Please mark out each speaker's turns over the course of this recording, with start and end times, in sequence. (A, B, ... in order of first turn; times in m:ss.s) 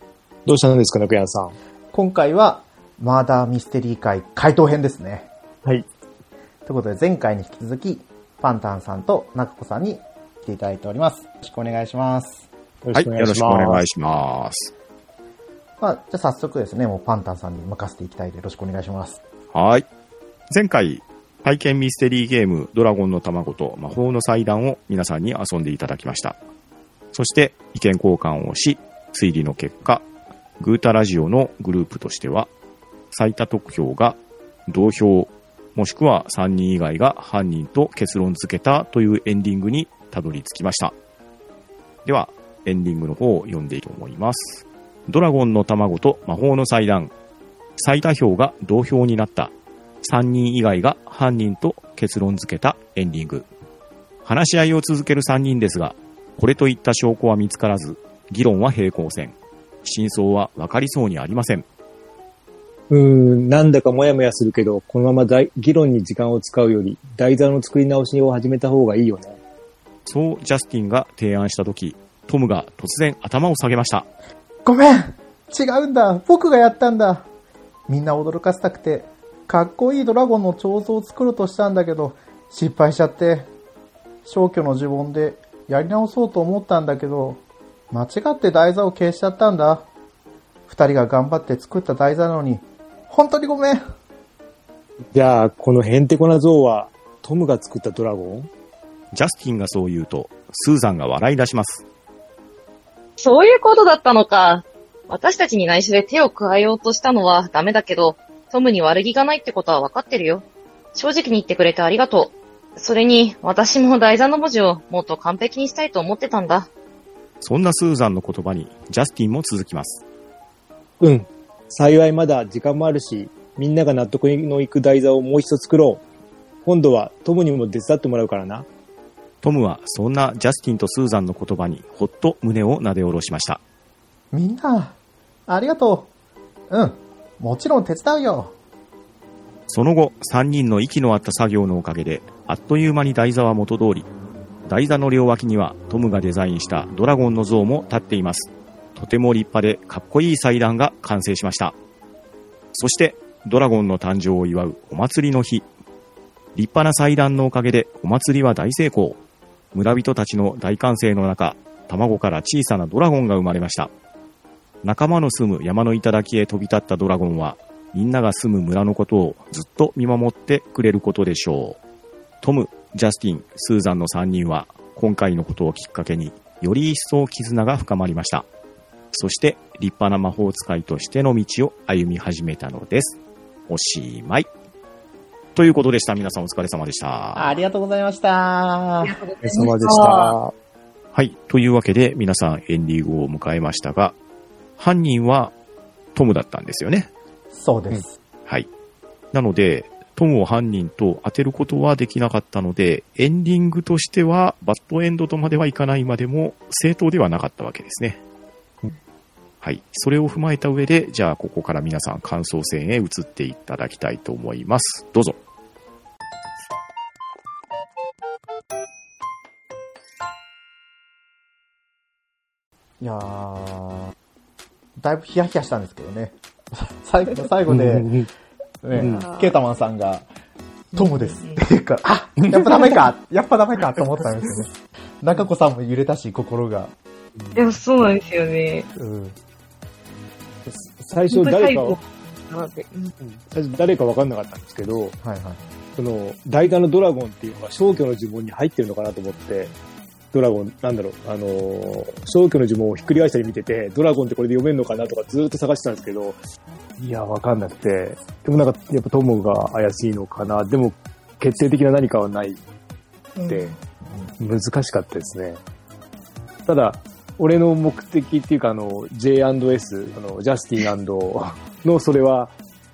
0:00.4-0:01.6 A
0:01.9-0:05.3 B
0:06.6-0:12.4 B
0:12.8-0:13.8 A
0:12.9-0:14.7 C
0:15.8-0:19.2 B
0:19.5-0:19.8 C
0:20.5-0:26.4 C
0:27.1-0:30.1 C
0:30.6-0:32.5 C
0:33.1-0:40.9 C
0:42.0-0:47.1 C
0:47.8-0:53.4 C
0:54.2-1:01.6 C
1:02.9-1:09.4 A
1:10.0-1:14.1 C
1:14.6-1:17.3 B
1:17.9-1:23.5 B
1:24.2-1:29.9 B
1:30.7-1:33.8 B
1:35.1-1:38.5 A
1:39.1-1:41.8 C
1:43.2-1:50.4 D
1:50.9-1:56.7 D
1:57.4-2:00.0 C
2:01.0-2:06.0 A
2:06.6-2:08.7 A
2:09.4-2:13.6 C
2:14.3-2:15.0 B
2:15.5-2:16.1 B
2:16.7-2:18.5 B
2:19.7-2:24.1 C
2:24.6-2:31.7 C
2:32.7-2:35.7 C
2:36.5-2:39.2 C
2:39.7-2:43.9 C
2:44.8-2:51.8 C
2:52.4-2:58.5 C
2:59.1-3:04.5 C
3:05.5-3:07.6 C
3:07.3-3:09.2 B
3:09.0-3:10.3 D
3:09.4-3:10.5 A
3:11.1-3:14.2 C
3:14.8-3:15.5 C
3:16.1-3:17.1 C
3:17.5-3:18.2 B
3:19.3-3:28.2 C
3:29.6-3:35.4 C
3:43.0-3:44.1 B
3:45.0-3:48.1 B
3:47.7-3:48.3 A
3:48.8-3:50.3 B
3:48.9-3:49.3 A
3:48.9-3:49.6 D
3:50.9-3:51.6 D
3:51.0-3:56.9 B
3:52.4-3:53.0 A
3:57.4-3:57.8 A
3:57.5-3:58.9 D
3:59.0-3:59.4 B
4:00.6-4:02.0 A
4:01.3-4:03.1 D
4:03.2-4:05.2 A
4:05.2-4:05.6 B
4:06.0-4:09.8 A
4:10.3-4:16.4 A
4:17.0-4:22.6 A
4:23.4-4:23.8 D
4:23.5-4:23.7 A
4:24.0-4:24.3 B
4:24.4-4:25.6 A
4:26.6-4:32.6 A